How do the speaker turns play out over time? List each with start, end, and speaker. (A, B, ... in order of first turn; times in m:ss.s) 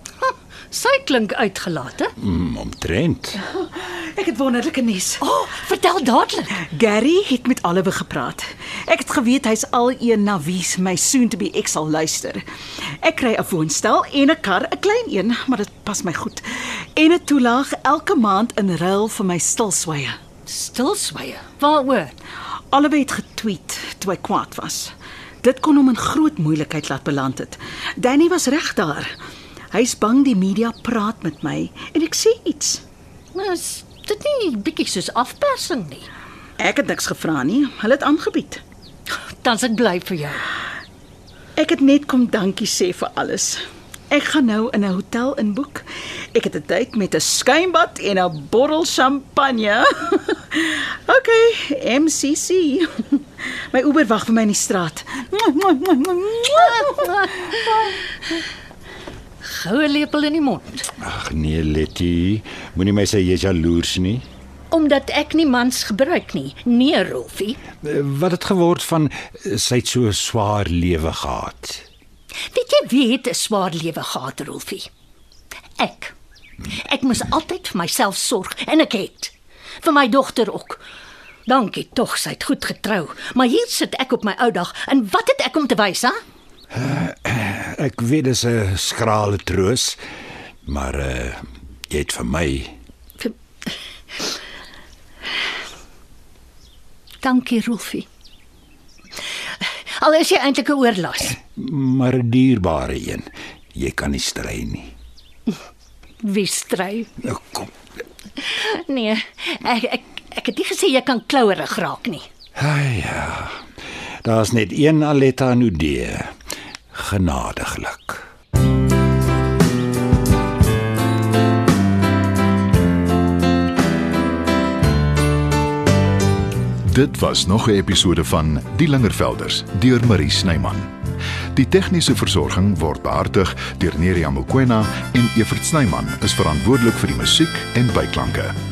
0:00.2-0:02.1 A
0:02.2-0:03.4 B
0:03.4-0:05.2 C
0:05.2-0:06.6 A
0:06.7-0:12.4 C
0:13.0-0:20.2 C
0:20.4-0:22.1 A
0:22.7-0:29.1 C
0:29.7-0:32.8 C
0:33.3-0:36.0 A
0:36.6-0:38.6 C
0:39.4-0:40.5 A
0:41.6-0:43.6 C
0:44.1-0:57.0 C
0:56.8-0:57.4 A
0:59.4-1:00.9 A
1:01.0-1:04.2 B
1:04.7-1:07.6 A
1:07.8-1:11.8 B
1:12.5-1:14.9 A
1:15.8-1:16.1 A
1:16.7-1:20.8 A
1:21.4-1:26.2 A
1:26.7-1:30.0 B
1:30.6-1:32.8 B
1:37.2-1:38.1 A
1:40.0-1:41.4 A
1:41.6-1:44.9 B
1:46.2-1:47.1 A
1:47.2-1:47.7 B
1:48.4-1:52.2 A
1:52.6-1:53.7 B
1:54.2-1:56.3 B
1:56.9-1:58.2 B
2:06.8-2:10.9 D
2:11.5-2:18.6 D